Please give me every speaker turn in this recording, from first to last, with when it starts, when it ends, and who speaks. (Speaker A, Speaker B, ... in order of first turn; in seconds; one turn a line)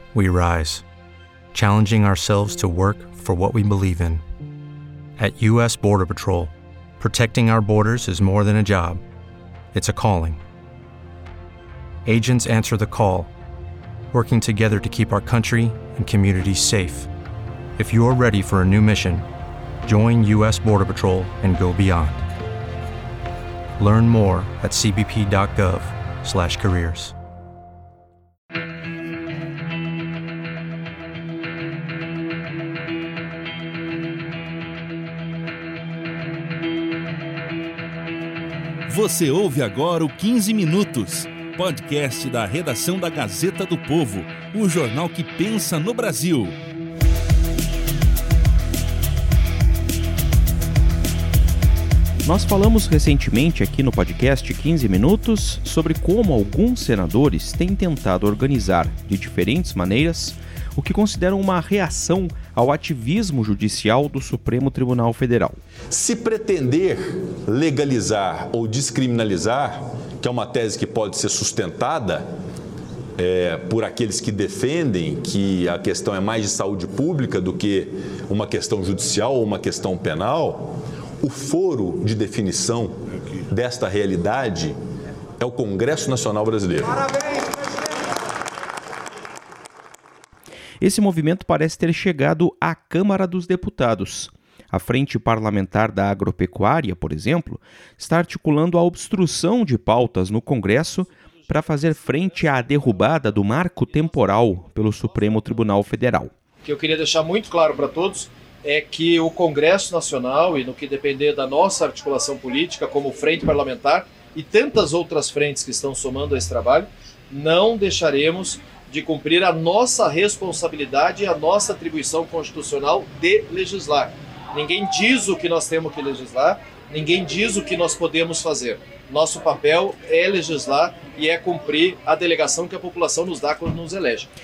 Speaker A: 0.1-0.8
Speaker A: 1.5-4.2
Speaker A: 5.2-9.0
Speaker A: 9.7-10.4
Speaker A: 12.0-13.3
Speaker A: 14.1-17.1
Speaker A: 17.8-19.2
Speaker A: 19.9-22.2
Speaker A: 23.8-27.1
Speaker B: 38.9-46.5
Speaker C: 52.2-65.6
Speaker D: 65.9-72.2
Speaker D: 73.2-82.9
Speaker D: 83.5-84.7
Speaker D: 85.4-87.0
Speaker C: 90.8-106.3
Speaker E: 106.6-134.3